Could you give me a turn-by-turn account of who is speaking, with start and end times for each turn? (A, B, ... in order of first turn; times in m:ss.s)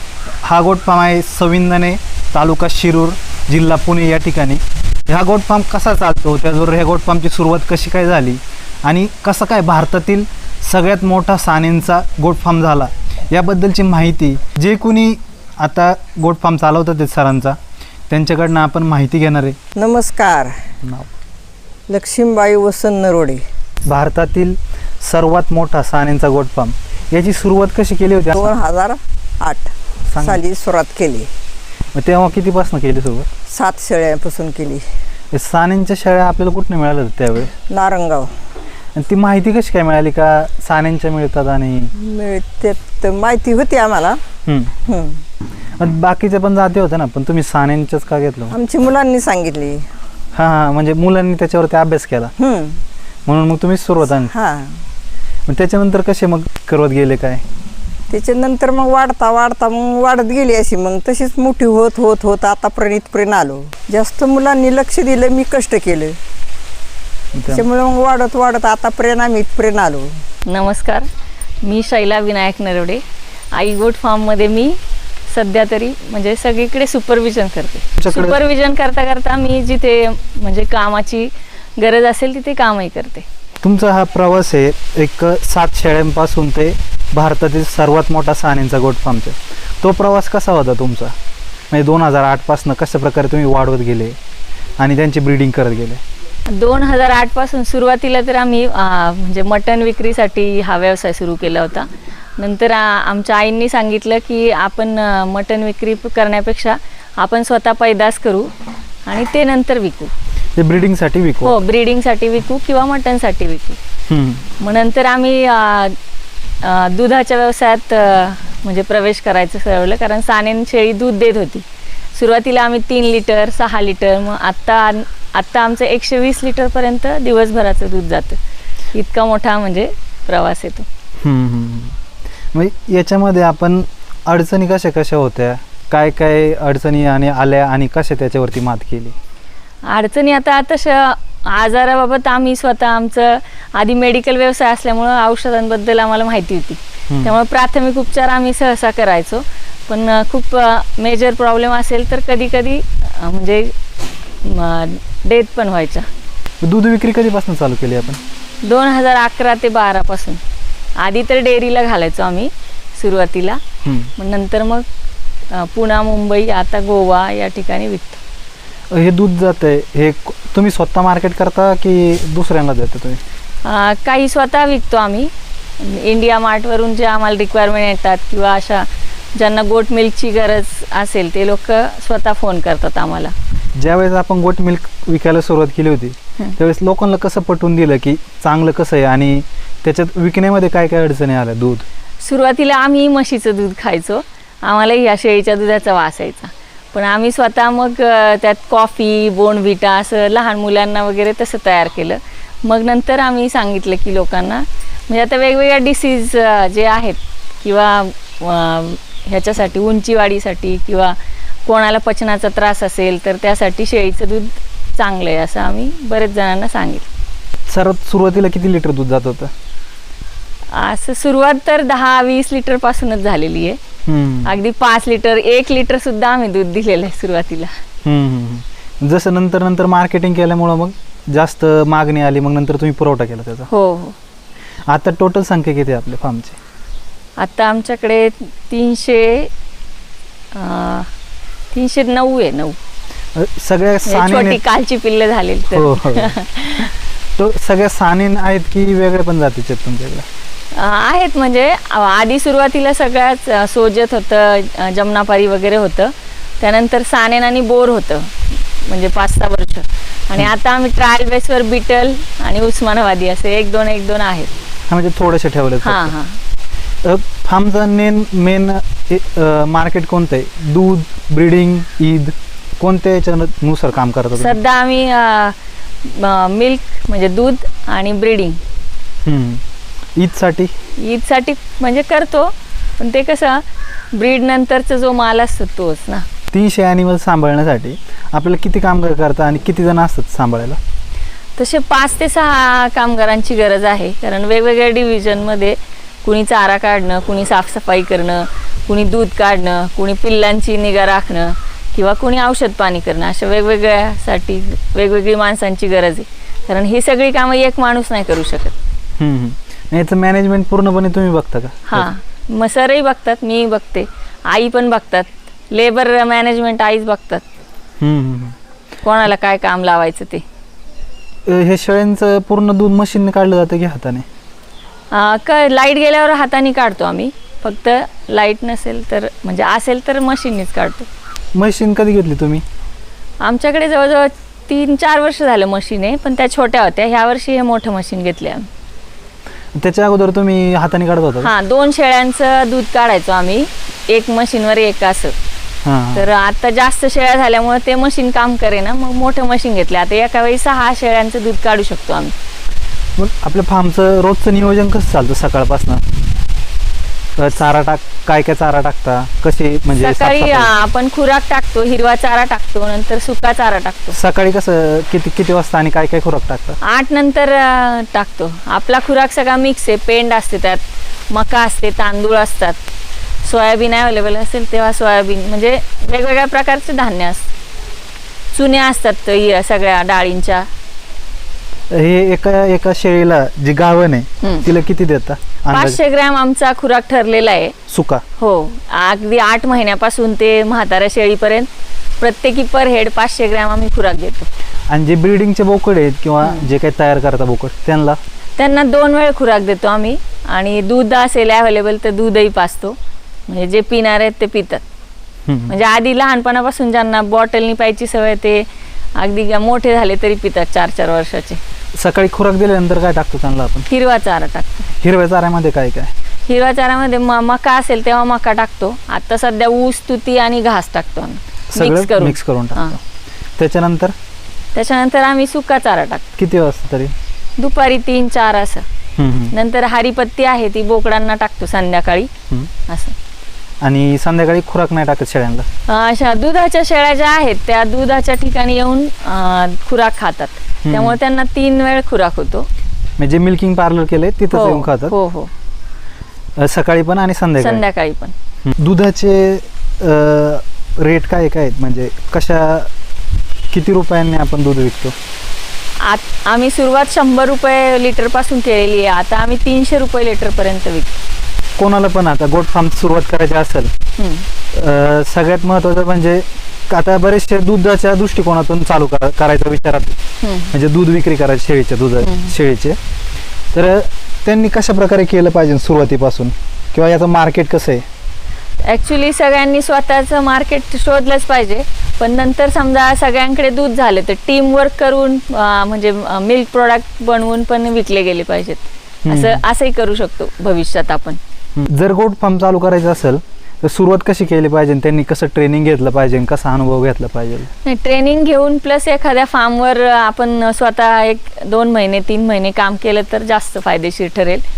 0:00.4-0:17.6 A
0:18.1-0:19.6 A
0:19.8-0:20.6 B
0:20.8-0:21.1 A
0:21.9-0:23.4 B
0:23.8-0:28.5 A
0:28.3-0:31.3 B
0:30.1-0:30.4 A
0:31.9-0:33.3 A
0:33.5-0:34.8 B
0:35.3-0:37.5 A
0:37.7-0:38.3 B
0:38.9-0:41.9 A
0:41.9-0:44.2 B
0:44.4-0:44.8 A
0:44.8-0:45.2 B
0:45.8-0:48.6 A
0:48.5-0:49.9 B
0:50.3-0:52.3 A
0:52.4-0:52.8 B
0:53.2-0:54.3 A
0:54.3-0:54.8 B
0:55.5-0:57.4 A
0:58.1-1:06.2 B
1:07.3-1:07.6 A
1:07.5-1:10.1 B
1:10.4-1:11.1 C
1:11.6-1:23.2 C
1:18.0-1:18.4 A
1:23.6-1:31.1 A
1:31.7-1:34.2 A
1:34.8-1:36.0 A
1:36.5-1:48.5 C
1:49.1-1:50.1 C
1:50.6-1:51.6 A
1:51.4-1:53.8 C
1:54.1-1:54.4 A
1:54.6-1:56.0 C
1:56.6-2:01.6 C
2:02.1-2:08.4 C
2:08.9-2:10.8 C
2:11.2-2:12.0 A
2:12.5-2:19.2 A
2:19.9-2:33.7 C
2:27.1-2:27.3 A
2:34.4-2:36.1 C
2:36.6-2:38.2 A
2:38.6-2:40.4 C
2:41.0-2:43.6 C
2:43.8-2:44.1 A
2:44.2-2:44.8 C
2:45.5-2:48.2 C
2:48.9-2:53.2 A
2:53.6-3:03.3 C
3:03.7-3:11.8 A
3:12.2-3:37.1 C
3:37.7-3:39.5 A
3:40.7-3:43.8 C
3:44.0-3:44.5 A
3:44.4-3:47.7 C
3:48.0-3:53.7 A
3:53.7-3:54.2 C
3:54.9-3:56.6 A
3:57.4-3:59.5 C
4:00.5-4:01.1 C
4:01.7-4:02.8 C
4:03.3-4:04.6 A
4:04.0-4:06.9 C
4:05.7-4:06.3 A
4:07.4-4:10.2 A
4:10.7-4:24.5 C
4:24.9-4:26.1 A
4:25.8-4:26.4 C
4:27.0-4:34.6 A
4:34.3-4:38.6 C
4:39.2-4:39.6 A
4:40.2-4:40.7 A
4:41.0-4:46.2 C
4:46.5-4:50.8 A
4:51.6-5:08.7 C
5:09.2-5:12.1 A
5:11.9-5:17.4 C
5:18.0-5:18.6 A
5:19.0-5:20.4 C
5:21.4-5:24.2 A
5:25.1-5:31.1 C
5:31.5-5:32.6 A
5:33.4-5:38.7 C
5:39.7-5:41.5 A
5:41.4-5:45.3 C
5:45.8-5:46.3 A
5:46.1-5:52.3 C
5:53.2-5:56.1 A
5:57.4-6:00.7 A
6:00.0-6:04.2 C
6:04.1-6:06.8 A
6:06.8-6:12.8 C
6:13.4-6:17.5 C
6:18.5-6:20.7 C
6:21.9-6:26.0 A
6:24.4-6:24.7 C
6:25.7-6:27.7 C
6:27.9-6:28.2 A
6:28.4-6:34.5 C
6:34.9-6:38.2 A
6:38.6-6:43.0 C
6:43.5-6:44.8 C
6:45.5-6:45.7 A
6:45.7-6:51.6 C
6:51.9-6:53.9 A
6:53.9-6:54.9 C
6:55.0-6:56.1 A
6:56.5-7:03.0 C
7:01.7-7:03.0 A
7:03.6-7:04.1 A
7:04.7-7:06.2 C
7:06.4-7:07.1 A
7:07.6-7:08.8 C
7:09.2-7:09.5 A
7:09.5-7:12.3 C
7:12.9-7:13.1 C
7:13.8-7:15.7 A
7:15.9-7:22.7 C
7:20.8-7:21.2 A
7:23.2-7:25.1 A
7:24.5-7:25.5 C
7:26.6-7:27.8 A
7:27.6-7:28.3 C
7:28.6-7:32.9 A
7:33.7-7:35.1 A
7:36.0-7:41.1 C
7:41.8-7:43.9 A
7:44.2-7:44.5 C
7:44.7-7:50.2 A
7:50.4-7:50.7 C
7:50.7-7:53.0 A
7:52.2-7:52.5 C
7:53.7-7:58.0 A
7:58.8-8:11.4 C
8:09.2-8:09.6 A
8:11.8-8:17.7 A
8:17.8-8:24.6 C